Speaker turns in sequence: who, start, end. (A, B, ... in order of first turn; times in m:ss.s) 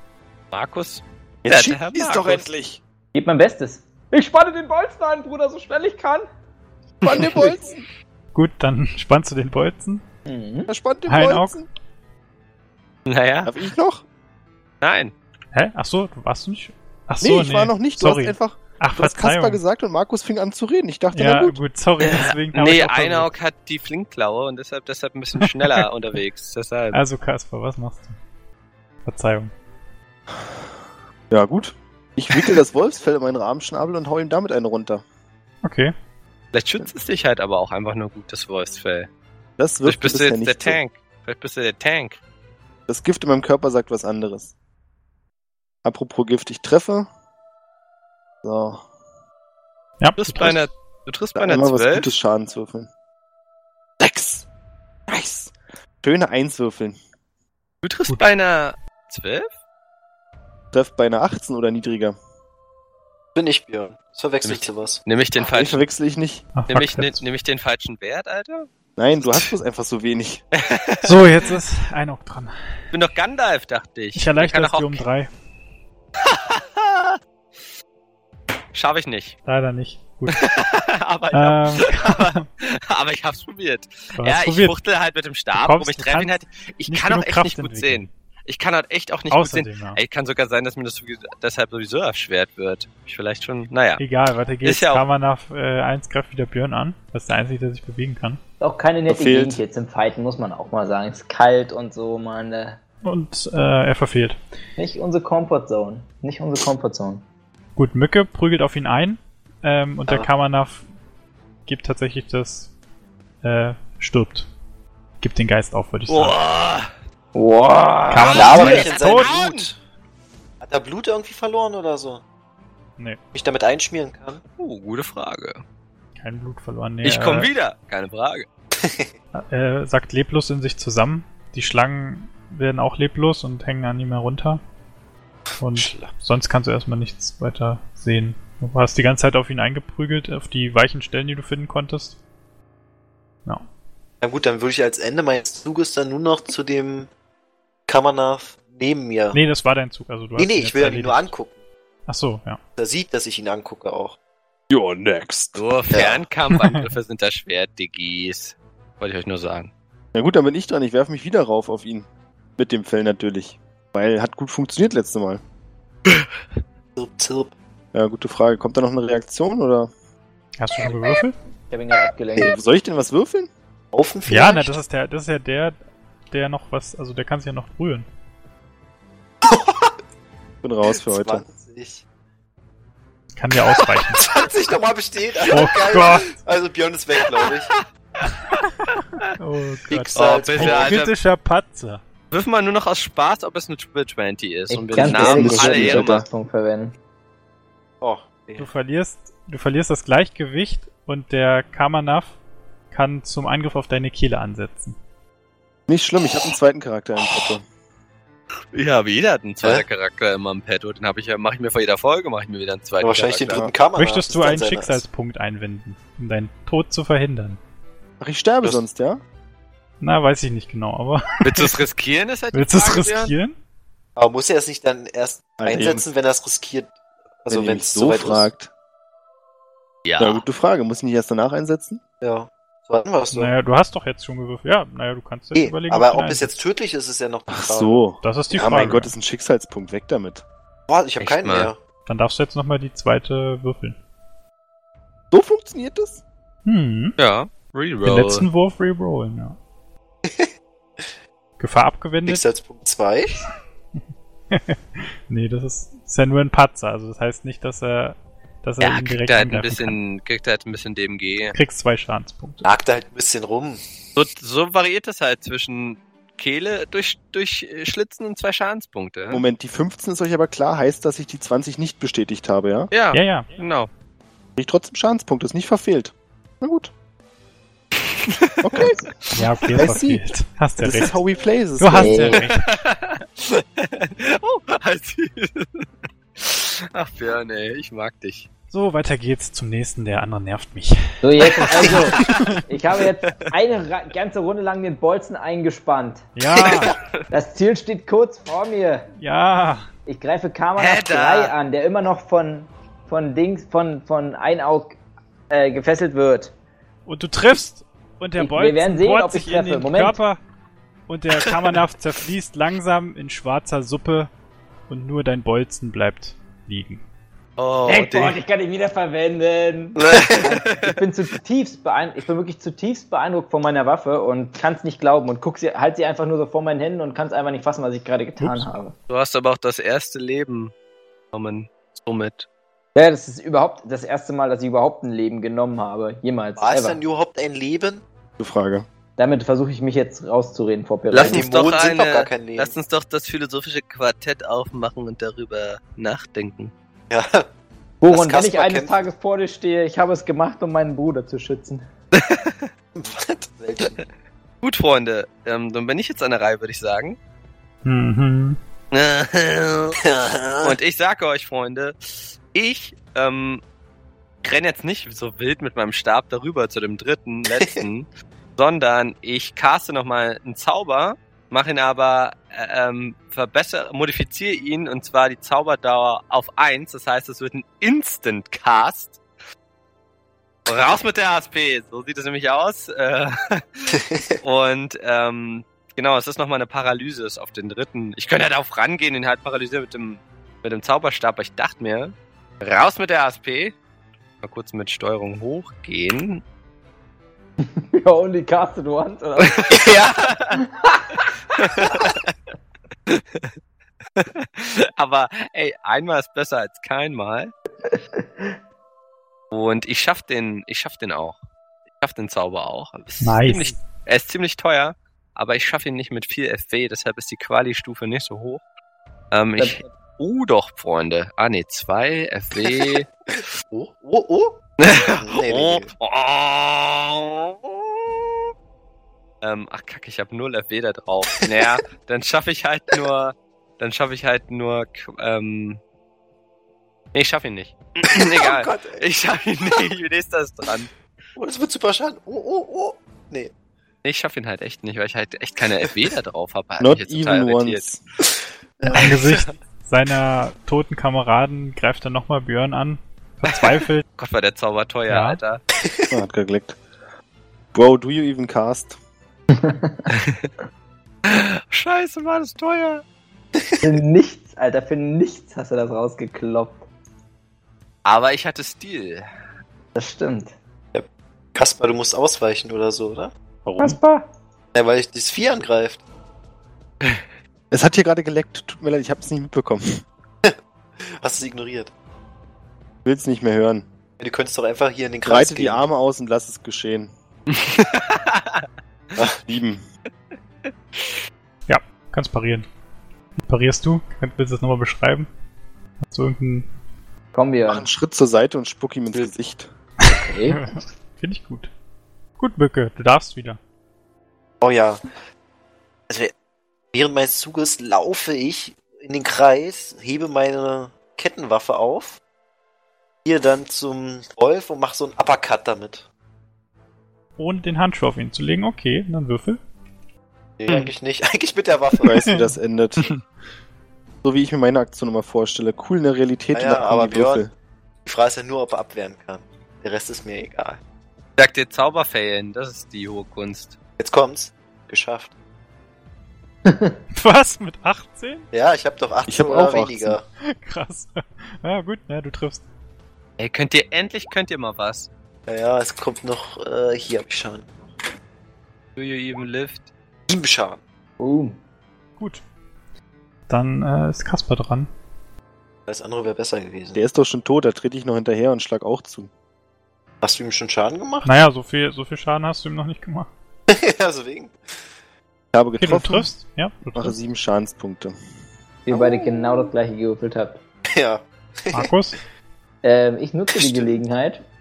0:00.5-0:02.4 A
0:01.4-0:02.8 B
0:03.1-0:06.3 C
0:07.0-0:07.8 B
0:07.1-0:07.5 A
0:08.3-0:10.0 D
0:10.3-0:10.7 C
0:10.7-0:11.6 B
0:11.1-0:11.6 D
0:13.1-0:13.6 A
0:13.4-0:14.0 B
0:14.8-0:15.1 A
0:15.5-0:19.6 D
0:17.2-0:21.6 B
0:21.1-0:23.3 D
0:22.0-0:27.0 A
0:25.4-0:25.9 D
0:26.9-0:28.1 D
0:29.0-0:29.5 D
0:31.3-0:35.0 B
0:35.6-0:35.9 D
0:36.5-0:39.1 A
0:39.6-0:40.8 B
0:39.8-0:42.2 A
0:42.9-0:44.5 B
0:45.8-0:47.1 B
0:48.4-0:48.8 B
0:50.0-0:50.6 D
0:50.2-0:52.1 A
0:51.4-0:52.9 B
0:54.0-0:54.4 B
0:55.1-0:57.0 B
0:57.8-0:59.5 A
1:00.7-1:02.2 B
1:03.4-1:05.0 E
1:04.4-1:05.8 A
1:05.4-1:06.5 B
1:06.5-1:07.2 D
1:06.7-1:09.5 A
1:09.0-1:10.4 B
1:10.5-1:11.4 A
1:11.0-1:12.5 D
1:12.9-1:15.0 A
1:14.1-1:15.3 D
1:16.2-1:17.2 A
1:18.7-1:19.4 A
1:19.4-1:20.4 D
1:20.3-1:34.0 A
1:21.3-1:22.4 D
1:24.2-1:24.7 D
1:25.5-1:26.4 D
1:26.9-1:28.1 D
1:29.3-1:30.0 D
1:34.0-1:38.4 D
1:34.6-1:35.0 A
1:38.6-1:42.8 C
1:39.1-1:39.6 B
1:43.0-1:44.4 D
1:44.8-1:47.2 C
1:47.8-1:50.8 D
1:51.6-1:52.7 D
1:53.4-1:54.5 D
1:55.2-1:56.4 D
1:56.1-1:56.9 A
1:57.4-1:58.9 C
1:58.1-1:59.3 D
1:58.2-1:59.7 A
1:58.3-1:59.8 E
2:00.6-2:02.2 E
2:03.3-2:04.4 E
2:04.6-2:05.6 A
2:06.2-2:07.5 D
2:07.0-2:08.4 A
2:08.8-2:09.1 E
2:09.3-2:14.6 D
2:15.6-2:22.2 D
2:15.7-2:16.1 E
2:24.2-2:27.1 E
2:27.9-2:29.4 E
2:29.3-2:31.3 D
2:30.4-2:31.6 E
2:32.1-2:32.6 D
2:32.8-2:34.2 E
2:34.7-2:35.6 B
2:35.6-2:39.7 A
2:35.9-2:36.2 E
2:36.5-2:36.9 D
2:40.1-2:45.4 B
2:47.0-2:47.5 E
2:47.9-2:49.9 B
2:50.6-2:51.4 D
2:51.7-2:52.6 C
2:52.4-2:53.5 B
2:53.9-2:54.8 E
2:54.3-2:55.7 D
2:56.3-2:58.1 D
2:59.4-3:00.0 E
3:00.6-3:01.4 B
3:00.9-3:02.0 E
3:03.4-3:04.3 D
3:04.1-3:07.7 E
3:05.5-3:06.4 D
3:07.2-3:09.3 A
3:09.2-3:12.0 D
3:09.9-3:11.0 E
3:10.1-3:11.1 A
3:12.3-3:16.2 A
3:14.7-3:17.0 C
3:15.0-3:16.2 B
3:18.0-3:18.7 E
3:18.6-3:22.4 D
3:22.9-3:25.0 D
3:25.9-3:27.6 B
3:28.7-3:33.7 A
3:33.0-3:35.0 E
3:33.9-3:37.6 D
3:38.2-3:39.2 B
3:40.0-3:41.8 D
3:41.4-3:43.3 A
3:42.5-3:43.6 D
3:44.2-3:46.9 E
3:45.6-3:46.1 B
3:47.4-3:48.5 E
3:47.5-3:48.7 B
3:50.0-3:50.4 A
3:50.2-3:52.0 B
3:52.2-3:53.5 E
3:53.3-3:56.6 D
3:55.6-3:58.9 E
3:57.5-4:00.4 B
3:58.2-3:59.1 D
4:00.9-4:01.8 E
4:01.2-4:01.7 A
4:02.1-4:04.0 D
4:05.3-4:06.2 B
4:06.6-4:07.2 D
4:07.2-4:08.4 A
4:08.0-4:09.6 D
4:11.6-4:12.4 D
4:12.3-4:13.4 E
4:14.5-4:20.0 D
4:18.8-4:21.6 A
4:21.5-4:22.7 D
4:22.6-4:23.8 E
4:24.2-4:29.4 A
4:29.3-4:32.9 B
4:32.9-4:33.9 A
4:33.1-4:33.5 D
4:34.6-4:36.9 B
4:38.1-4:38.7 A
4:38.6-4:39.0 B
4:39.4-4:41.1 D
4:39.7-4:40.2 B
4:40.8-4:42.4 B
4:41.8-4:42.6 D
4:42.0-4:42.4 C
4:42.4-4:45.8 A
4:46.4-4:48.5 A
4:48.7-4:52.6 D
4:51.2-4:56.3 C
4:51.5-4:52.6 A
4:56.4-4:57.0 D
4:56.7-4:57.2 A
4:57.3-4:59.1 C
4:59.2-4:59.9 D
5:00.1-5:05.0 C
5:00.8-5:01.5 A
5:05.5-5:06.5 C
5:07.1-5:10.4 D
5:08.4-5:10.2 C
5:11.1-5:14.3 D
5:14.9-5:17.0 D
5:17.6-5:18.4 A
5:17.8-5:28.9 C
5:20.0-5:21.0 A
5:28.4-5:28.7 D
5:29.1-5:30.7 A
5:31.3-5:32.5 A
5:32.9-5:37.0 C
5:36.6-5:38.0 E
5:38.4-5:38.8 B
5:39.2-5:41.4 C
5:41.1-5:46.7 A
5:41.2-5:42.8 E
5:47.1-5:47.5 E
5:48.0-5:51.9 C
5:48.1-5:49.1 E
5:52.1-5:52.7 A
5:52.9-5:54.0 E
5:54.6-5:57.2 A
5:57.8-5:58.6 D
5:58.9-6:00.0 A
6:00.0-6:00.8 E
6:00.6-6:03.6 A
6:04.4-6:19.2 A
6:20.6-6:33.7 A
6:24.1-6:24.4 E
6:34.4-6:36.4 A
6:37.6-6:39.9 C
6:39.4-6:40.6 A
6:40.5-6:41.2 C
6:41.6-6:42.3 A
6:43.1-6:43.5 A
6:44.2-6:47.5 A
6:47.9-6:48.5 C
6:49.5-6:51.4 A
6:52.0-6:58.6 A
6:53.2-6:53.8 D
6:59.3-7:03.1 A
6:59.6-6:59.8 C
7:03.7-7:05.9 E
7:04.8-7:08.2 A
7:09.4-7:15.8 A
7:11.4-7:11.7 E
7:17.1-7:20.9 A
7:18.1-7:19.0 E
7:21.4-7:23.5 E
7:24.0-7:27.8 A
7:26.8-7:28.0 B
7:28.8-7:29.1 E
7:28.8-7:29.5 A
7:28.9-7:34.0 D
7:34.1-7:35.6 A
7:35.1-7:35.4 D
7:36.1-7:36.8 B
7:37.7-7:39.0 B
7:39.6-7:40.1 C
7:40.1-7:40.5 A
7:41.3-7:43.0 A
7:43.8-7:46.8 C
7:48.0-7:49.3 A
7:49.9-7:50.6 C
7:50.9-7:53.3 E
7:53.6-7:53.9 B
7:53.8-7:54.3 C
7:54.7-7:56.0 E
7:57.7-8:00.0 B
8:00.4-8:01.9 E
8:03.0-8:03.8 B
8:04.2-8:05.8 E
8:05.2-8:07.1 B
8:07.5-8:08.6 A
8:09.4-8:09.8 B
8:11.7-8:12.7 D
8:13.4-8:15.3 D
8:16.0-8:16.7 D
8:17.3-8:17.9 C
8:17.7-8:19.7 B
8:20.0-8:20.7 C
8:20.4-8:21.7 D
8:22.4-8:23.6 D
8:24.6-8:25.0 E
8:26.1-8:26.3 E
8:26.9-8:32.2 E
8:33.2-8:36.1 E
8:37.4-8:39.6 D
8:40.6-8:42.2 E
8:42.0-8:43.1 B
8:42.0-8:42.5 D
8:44.2-8:47.5 B
8:46.5-8:47.4 E
8:48.0-8:50.8 E
8:51.4-8:53.8 A
8:54.0-8:55.3 E
8:56.6-8:57.0 C
8:57.1-8:58.4 D
8:58.5-9:00.2 E
8:59.3-9:00.2 B
9:00.5-9:02.6 D
9:03.4-9:05.1 A
9:05.5-9:07.9 E
9:09.0-9:09.9 A
9:10.3-9:10.8 E
9:11.2-9:11.6 C
9:13.5-9:14.9 D
9:15.9-9:17.0 E
9:16.9-9:19.3 B
9:20.2-9:21.3 E
9:21.2-9:23.3 D
9:23.7-9:24.6 E
9:25.5-9:26.3 B
9:25.8-9:27.2 D
9:26.9-9:28.2 B
9:28.8-9:30.6 C
9:29.0-9:29.3 E
9:30.9-9:31.9 E
9:31.7-9:32.2 D
9:32.8-9:34.4 C
9:33.6-9:33.9 E